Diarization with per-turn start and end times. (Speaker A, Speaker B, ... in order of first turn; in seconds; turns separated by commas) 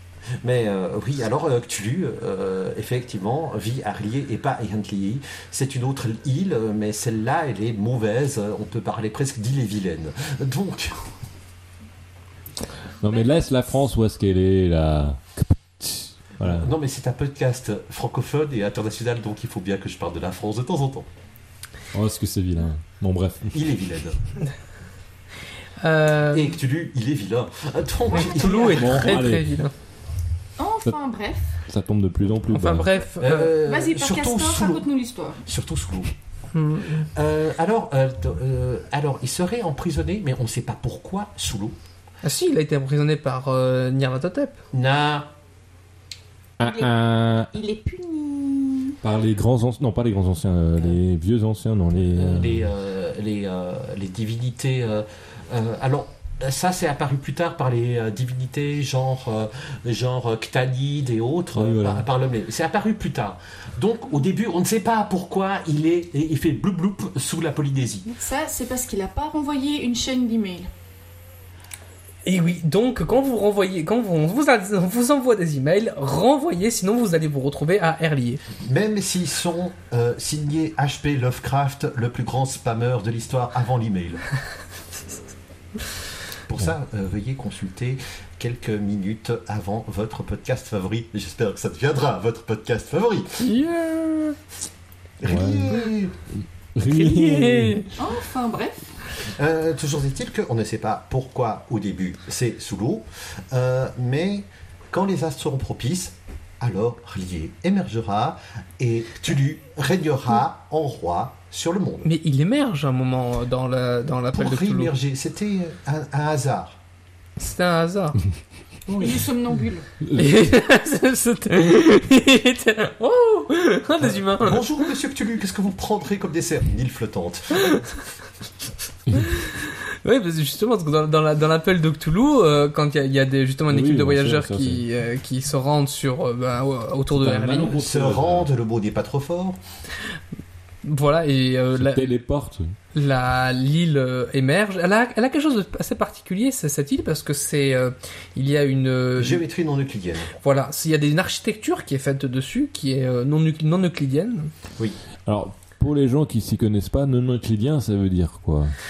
Speaker A: 0.4-11.0, Speaker B: 13.0-16.7, Speaker A: 16.4-21.1, Speaker B: 21.9-23.6, Speaker A: 23.5-24.2, Speaker C: 25.8-26.5, Speaker A: 26.3-29.2, Speaker D: 28.1-28.9, Speaker C: 28.1-29.7, Speaker B: 28.7-29.6, Speaker D: 30.6-31.5, Speaker B: 31.6-32.9, Speaker C: 32.5-33.5, Speaker A: 33.2-34.9, Speaker D: 33.6-35.4, Speaker A: 35.4-36.1, Speaker C: 36.5-37.1, Speaker A: 37.0-41.8, Speaker C: 42.2-44.6, Speaker A: 44.7-45.3, Speaker B: 46.6-47.5, Speaker D: 46.6-49.0, Speaker B: 49.0-52.7, Speaker A: 52.1-68.1, Speaker B: 61.5-62.0, Speaker D: 68.1-70.7, Speaker C: 72.2-78.4, Speaker A: 78.6-84.2, Speaker A: 86.5-93.5, Speaker C: 93.4-94.4, Speaker A: 95.2-96.1, Speaker B: 95.2-97.9, Speaker C: 96.9-97.9, Speaker D: 98.0-98.9, Speaker A: 99.3-112.1, Speaker C: 112.0-114.9, Speaker A: 114.3-116.8, Speaker C: 117.4-118.2, Speaker D: 118.9-119.8, Speaker A: 118.9-119.2, Speaker B: 120.0-120.5, Speaker C: 120.1-124.6, Speaker A: 124.0-127.8, Speaker C: 127.6-127.8, Speaker C: 129.2-137.7, Speaker B: 133.7-134.8, Speaker B: 137.1-138.5, Speaker A: 137.7-139.6, Speaker C: 140.8-142.1, Speaker B: 141.7-142.7, Speaker C: 142.9-149.4, Speaker A: 149.2-150.3, Speaker C: 150.4-154.5, Speaker B: 155.2-158.8